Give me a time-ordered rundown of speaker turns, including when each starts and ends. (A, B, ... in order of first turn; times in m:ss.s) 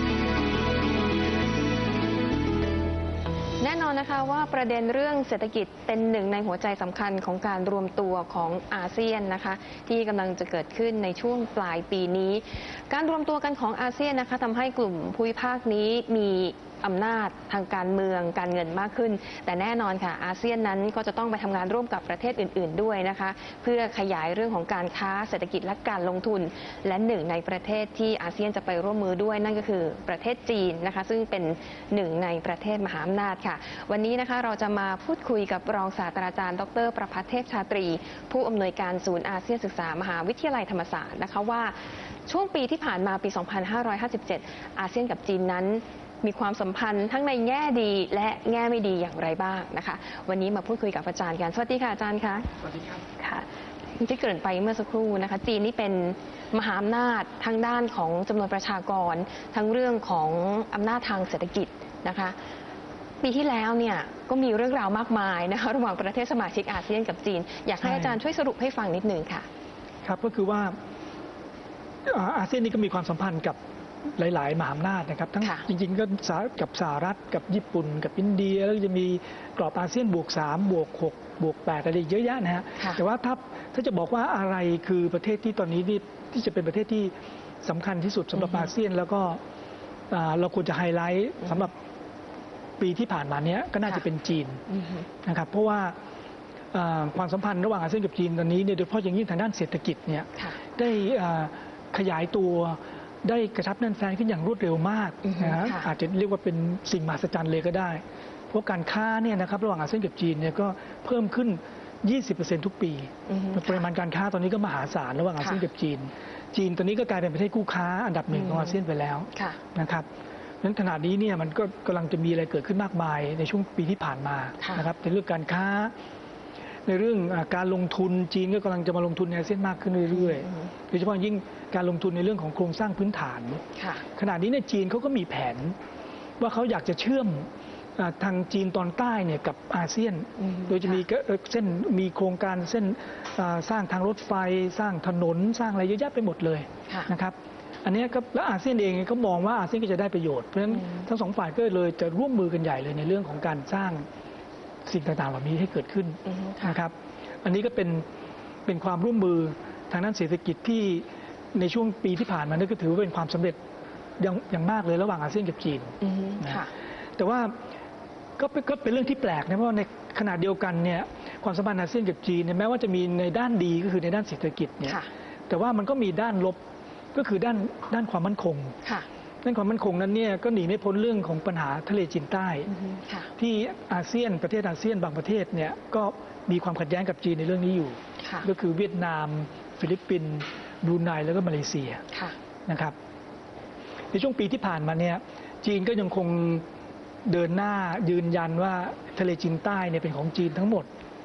0:03.6-1:02.4 A
1:03.2-1:09.5 A
1:07.8-1:08.2 B
1:10.0-1:10.8 B
1:12.0-1:13.6 B
1:14.2-1:29.4 B
1:15.4-1:15.6 A
1:22.8-1:23.0 A
1:28.4-1:28.7 A
1:30.1-1:31.7 B
1:32.8-1:34.6 B
1:34.7-1:35.0 A
1:35.2-1:35.9 B
1:36.7-2:00.0 B
1:45.2-1:45.9 A
1:53.3-1:53.8 A
1:58.3-1:58.8 A
2:00.6-2:05.9 B
2:04.6-2:04.9 A
2:06.8-2:13.6 B
2:10.4-2:10.7 A
2:13.8-2:14.0 A
2:14.1-2:15.8 B
2:16.4-2:34.0 B
2:20.4-2:21.0 A
2:34.8-2:38.0 B
2:36.2-2:36.8 A
2:38.6-2:43.6 B
2:44.2-2:46.6 B
2:46.0-2:46.7 A
2:47.2-2:47.5 B
2:48.4-2:56.6 B
2:54.8-2:55.1 A
2:57.1-2:58.8 B
2:59.4-3:02.7 B
3:02.7-3:03.3 A
3:03.4-3:12.0 B
3:08.2-3:08.5 A
3:12.7-3:13.0 B
3:14.1-3:16.6 B
3:17.2-3:20.9 B